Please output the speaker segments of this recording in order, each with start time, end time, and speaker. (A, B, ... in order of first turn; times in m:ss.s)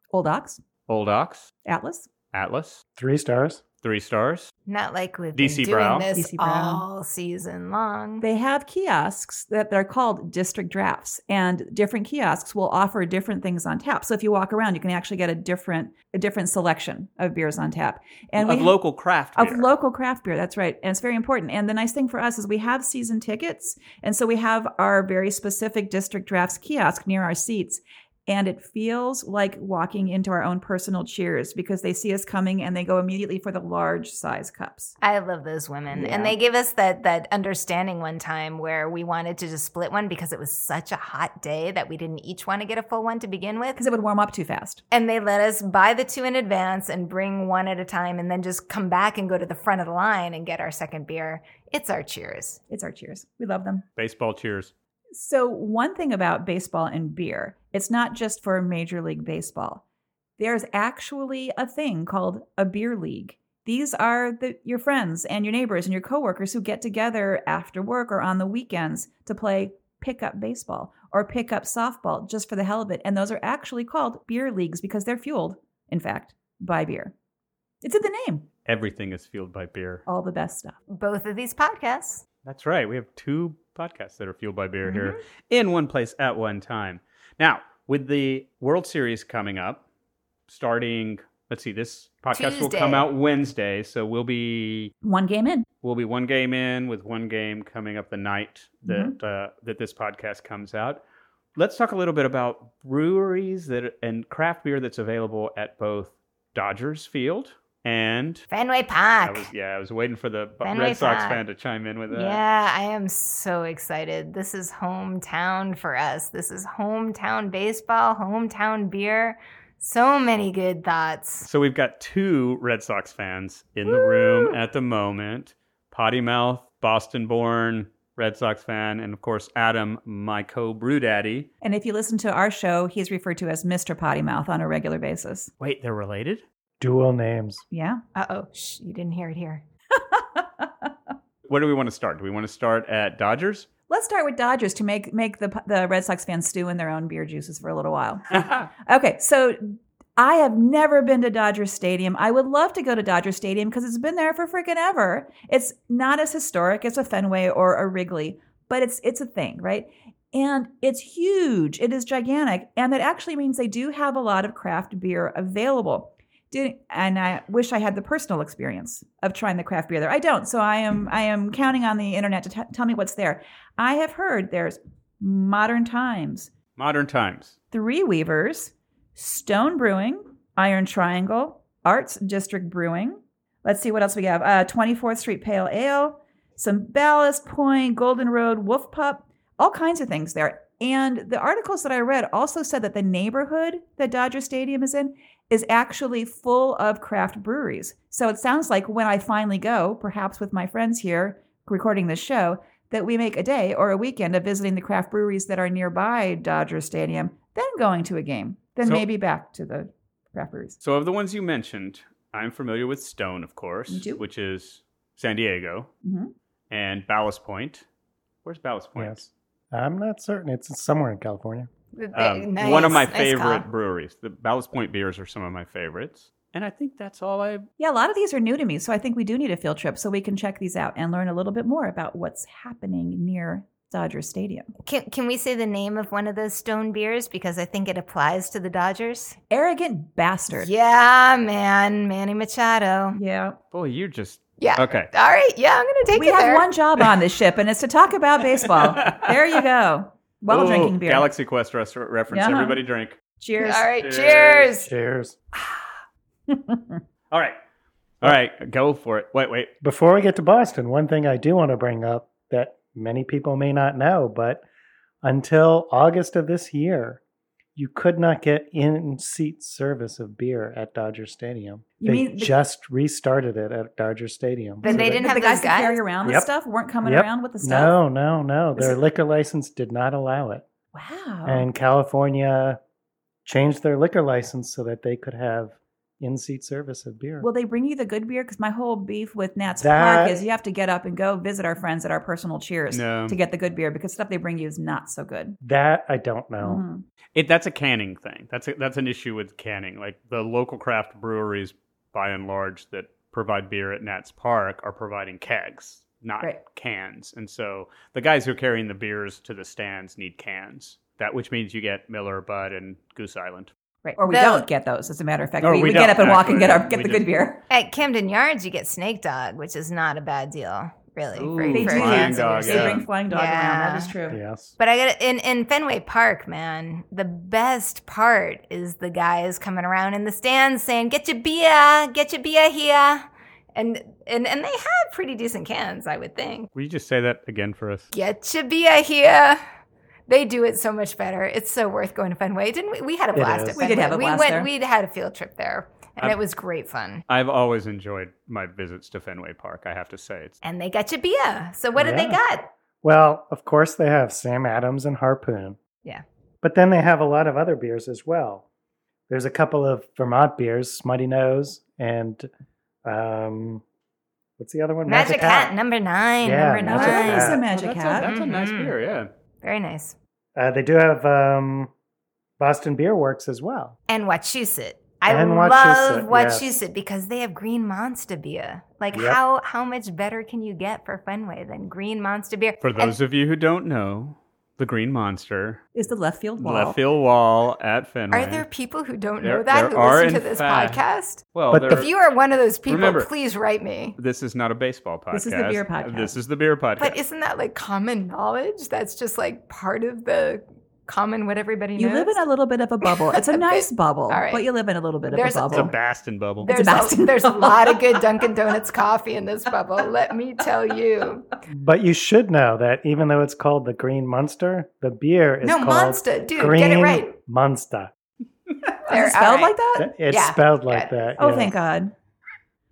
0:00.1-0:00.6 A
0:00.9-0:01.5 B
0:01.6-0:02.1 A
0:02.3-0:02.8 B
0:03.0-0:03.6 C
0:03.8-0:04.5 B
0:04.7-0:08.2 D
0:05.4-0:06.1 B
0:06.1-0:06.8 A
0:08.2-0:18.8 A
0:18.4-0:19.7 B
0:19.4-0:35.0 A
0:35.0-0:43.8 D
0:35.9-0:36.4 A
0:43.8-0:44.8 A
0:44.9-0:52.6 D
0:52.7-0:53.8 A
0:54.0-0:54.7 B
0:55.1-0:59.8 A
1:00.4-1:17.1 A
1:17.8-1:18.5 A
1:18.7-1:20.0 B
1:20.1-1:20.8 A
1:20.9-1:22.2 D
1:22.4-1:29.8 B
1:24.8-1:25.2 D
1:30.5-1:34.9 B
1:32.3-1:33.1 D
1:35.0-1:35.7 A
1:35.8-1:41.0 B
1:38.9-1:39.1 A
1:41.6-1:48.5 B
1:48.5-1:49.5 D
1:49.2-1:52.4 B
1:50.6-1:51.4 D
1:52.1-2:01.5 D
2:01.5-2:11.5 B
2:03.9-2:04.6 D
2:11.6-2:15.5 A
2:15.6-2:16.4 B
2:16.8-2:17.6 C
2:17.7-2:18.0 A
2:18.2-2:19.6 D
2:20.0-2:20.9 A
2:21.5-2:23.7 B
2:23.9-2:56.5 A
2:28.4-2:28.6 B
2:56.8-2:57.6 B
2:57.7-3:30.8 A
3:30.8-3:35.9 B
3:33.9-3:34.2 A
3:36.0-3:36.3 A
3:36.7-3:37.8 B
3:38.4-3:39.3 B
3:39.7-3:41.7 C
3:42.0-3:43.7 D
3:42.1-3:47.7 B
3:47.8-3:54.7 A
3:54.8-3:59.4 D
3:59.5-4:00.7 A
4:00.5-4:03.2 D
4:03.1-4:03.6 A
4:03.7-4:05.1 B
4:04.6-4:06.7 D
4:06.1-4:11.3 A
4:08.7-4:09.4 B
4:10.5-4:13.2 B
4:12.3-4:12.8 A
4:13.4-4:13.9 A
4:13.6-4:14.9 D
4:14.0-4:14.8 B
4:14.8-4:15.4 C
4:16.5-4:17.0 A
4:17.3-4:17.6 B
4:18.2-4:19.7 B
4:19.8-4:24.6 C
4:25.2-4:27.2 C
4:27.8-4:35.2 C
4:32.0-4:32.5 A
4:34.8-4:38.0 A
4:34.8-4:36.0 D
4:37.0-4:40.7 C
4:40.9-4:41.7 A
4:41.5-4:42.8 C
4:43.4-4:47.5 C
4:47.4-4:55.6 A
4:49.8-4:50.4 C
4:52.9-4:53.4 B
4:55.6-4:56.8 C
4:56.6-4:57.0 A
4:57.4-5:13.7 B
5:14.0-5:17.6 A
5:14.3-5:14.7 D
5:15.6-5:17.3 B
5:17.7-5:24.1 D
5:21.4-5:23.0 B
5:21.7-5:24.4 A
5:24.3-5:24.7 C
5:24.8-5:36.7 D
5:36.8-5:38.1 B
5:38.1-5:39.6 D
5:40.3-5:47.2 D
5:43.3-5:43.9 C
5:43.8-5:44.7 A
5:47.3-5:50.6 B
5:50.6-5:52.7 D
5:52.0-5:52.4 C
5:53.0-5:55.8 C
5:56.6-5:58.6 C
5:59.3-6:02.5 C
6:03.0-6:03.8 C
6:04.6-6:05.7 C
6:05.1-6:07.6 D
6:06.4-6:07.6 C
6:06.8-6:08.3 A
6:07.1-6:09.3 B
6:08.2-6:09.0 D
6:09.6-6:10.2 D
6:10.6-6:11.9 C
6:12.6-6:14.0 C
6:14.1-6:23.1 D
6:15.2-6:16.8 C
6:19.1-6:19.4 C
6:22.8-6:25.8 B
6:26.0-6:27.0 A
6:26.6-6:28.7 B
6:28.3-6:34.2 D
6:29.4-6:31.0 B
6:31.5-6:32.1 B
6:31.7-6:32.1 C
6:32.9-6:33.3 B
6:34.2-6:37.2 B
6:35.3-6:36.4 A
6:37.0-6:42.4 D
6:42.0-6:45.9 A
6:43.5-6:44.7 D
6:45.3-6:45.9 D
6:45.7-6:46.7 B
6:46.6-6:48.2 A
6:46.6-6:51.5 D
6:51.7-6:58.1 C
6:55.6-6:57.3 D
6:59.1-6:59.8 D
6:59.1-7:00.1 A
7:00.0-7:01.7 C
7:00.3-7:01.7 D
7:01.4-7:02.1 A